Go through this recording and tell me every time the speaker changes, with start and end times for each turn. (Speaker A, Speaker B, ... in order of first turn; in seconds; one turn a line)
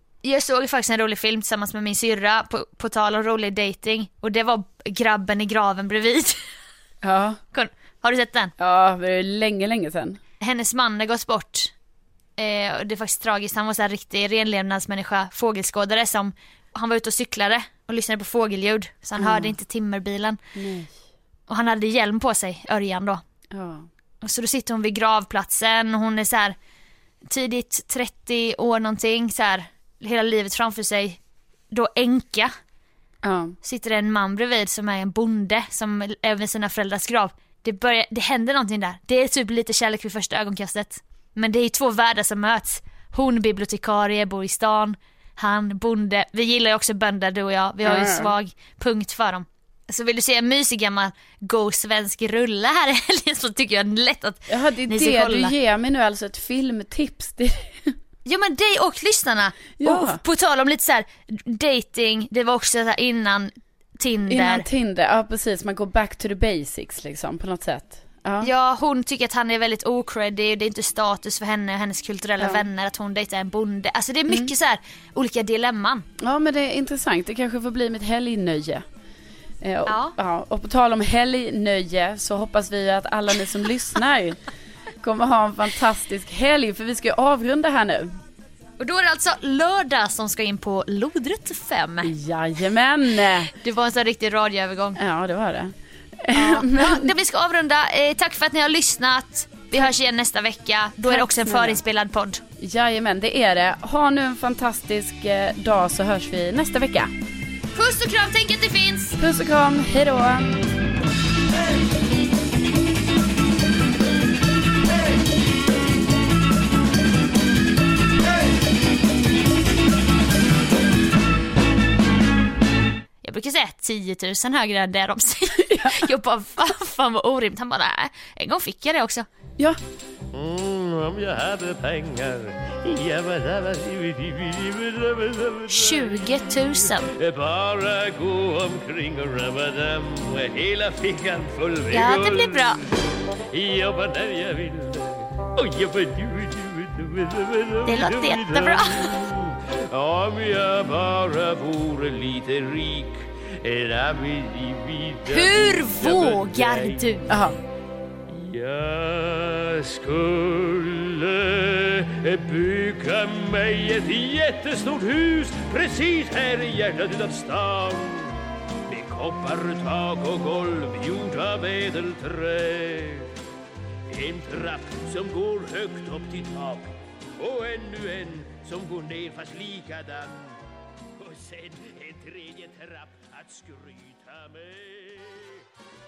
Speaker A: 0.2-6.4
Speaker B: 7.0-7.4
Speaker A: 7.5-8.5
Speaker B: 8.6-10.2
Speaker A: 10.4-11.7
Speaker A: 12.4-20.4
Speaker B: 19.2-19.5
Speaker B: 20.6-20.9
Speaker A: 21.5-23.2
Speaker B: 23.5-23.9
Speaker A: 24.2-26.6
Speaker A: 27.2-31.2
Speaker A: 31.7-32.5
Speaker B: 33.2-33.6
Speaker A: 33.6-55.5
Speaker B: 47.8-48.3
Speaker B: 54.5-58.0
Speaker A: 58.2-64.7
Speaker B: 59.8-60.2
Speaker B: 64.3-68.5
Speaker A: 68.4-76.0
Speaker B: 72.4-72.6
Speaker B: 76.2-78.8
Speaker B: 79.6-84.4
Speaker A: 79.9-80.1
Speaker B: 85.0-88.2
Speaker A: 88.8-92.1
Speaker B: 92.0-93.5
Speaker A: 93.5-95.0
Speaker B: 95.0-97.1
Speaker A: 96.3-102.4
Speaker B: 101.1-101.8
Speaker B: 102.6-107.1
Speaker A: 107.7-109.2
Speaker B: 109.2-110.6
Speaker A: 123.2-129.3
Speaker B: 125.6-126.1
Speaker C: 130.3-142.9
Speaker A: 135.7-137.1
Speaker A: 141.9-142.9
Speaker C: 143.5-157.4
Speaker A: 147.8-149.2
Speaker A: 155.3-157.3
Speaker B: 157.3-157.6
Speaker C: 158.3-168.4
Speaker C: 168.9-173.3
Speaker C: 174.1-180.6
Speaker C: 181.2-185.6